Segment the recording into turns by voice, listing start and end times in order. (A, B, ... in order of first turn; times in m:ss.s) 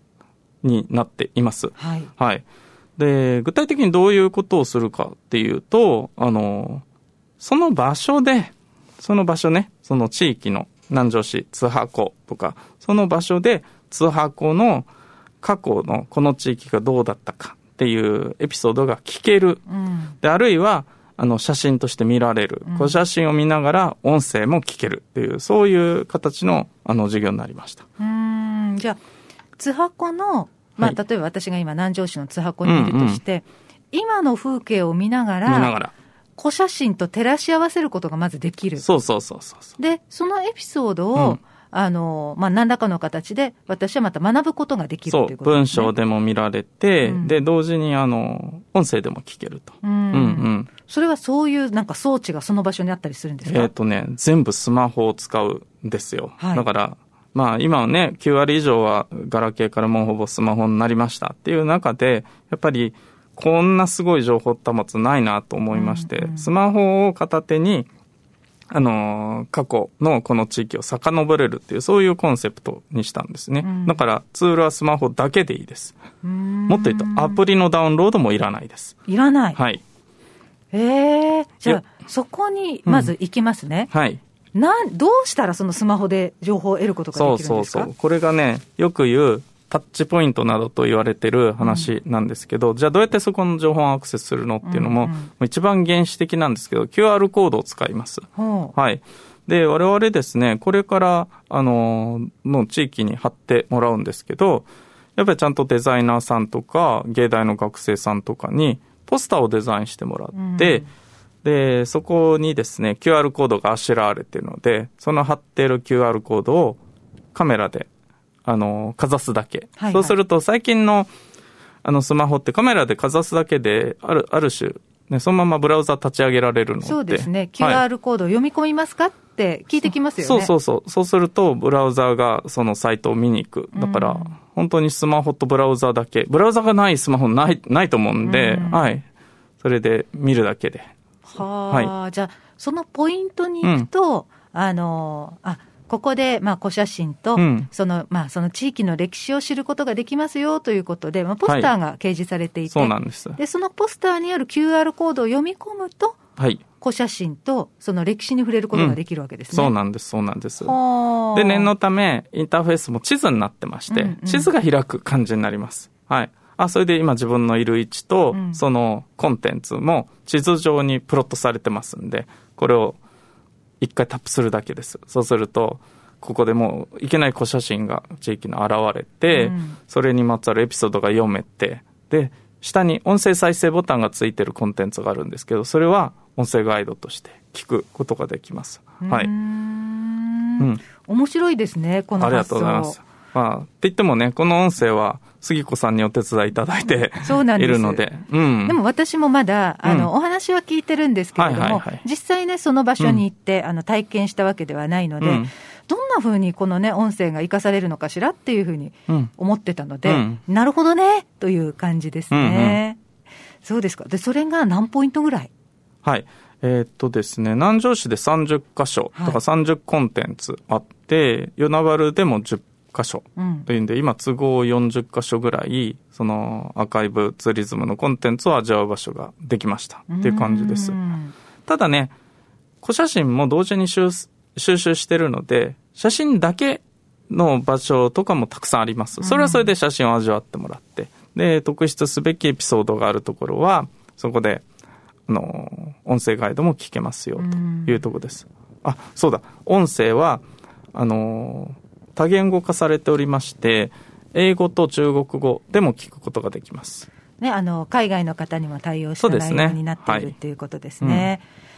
0:00.6-0:02.4 A
0:01.8-0:02.1 B
0:03.0-0:06.8 A
0:07.4-0:14.9 A
0:15.4-0:19.6 A
0:19.7-0:20.1 B
0:20.2-0:27.8 A
0:22.6-0:23.0 B
0:28.0-0:29.0 B
0:29.6-0:35.8 B
0:32.6-0:33.2 A
0:35.5-0:35.9 A
0:36.4-0:38.9 B
0:38.8-0:39.8 A
0:39.8-0:45.9 B
0:41.1-0:41.4 A
0:45.1-0:50.7 A
0:47.0-0:47.4 B
0:49.8-0:53.7 B
0:53.4-1:07.9 A
0:56.4-0:56.6 B
1:05.7-1:06.5 B
1:08.7-1:16.0 A
1:13.6-1:14.0 B
1:16.2-1:17.4 B
1:16.7-1:19.0 A
1:19.1-1:19.6 B
1:19.6-1:19.8 A
1:20.7-1:23.9 B
1:22.9-1:23.1 A
1:23.9-1:24.2 A
1:24.6-1:27.9 B
1:27.1-1:50.9 A
1:31.6-1:31.9 B
1:34.6-1:35.3 B
1:38.4-1:38.7 B
1:50.3-1:50.9 B
1:51.4-1:56.8 A
1:57.4-1:57.9 A
1:58.4-2:01.1 A
1:59.8-2:00.1 B
2:01.8-2:07.8 A
2:06.8-2:10.5 B
2:10.2-2:19.0 A
2:13.7-2:14.4 B
2:18.2-2:18.9 B
2:19.6-2:20.9 A
2:21.3-2:36.2 B
2:21.7-2:21.9 A
2:23.6-2:23.9 A
2:27.4-2:27.7 A
2:31.4-2:31.7 A
2:32.7-2:33.4 A
2:36.4-2:36.6 A
2:36.8-2:39.7 B
2:38.7-2:39.0 A
2:39.5-2:40.8 A
2:40.6-2:41.7 B
2:41.3-2:53.0 A
2:43.9-2:44.5 B
2:48.3-2:48.6 B
2:53.8-3:09.3 A
2:59.3-2:59.8 B
3:09.0-3:13.0 B
3:12.2-3:18.8 A
3:17.2-3:18.0 B
3:18.6-3:33.0 B
3:19.8-3:20.1 A
3:21.4-3:22.0 A
3:25.2-3:25.5 A
3:30.1-3:30.4 A
3:32.3-3:32.8 A
3:33.6-3:35.5 B
3:36.0-3:51.0 A
3:39.1-3:39.4 B
3:43.4-3:43.7 B
3:50.1-3:51.4 B
3:51.7-3:52.1 A
3:52.8-4:04.6 A
3:59.2-3:59.6 B
4:05.3-4:10.4 A
4:07.4-4:08.1 B
4:10.9-4:17.1 A
4:17.4-4:21.4 B
4:19.2-4:20.3 A
4:21.0-4:21.3 A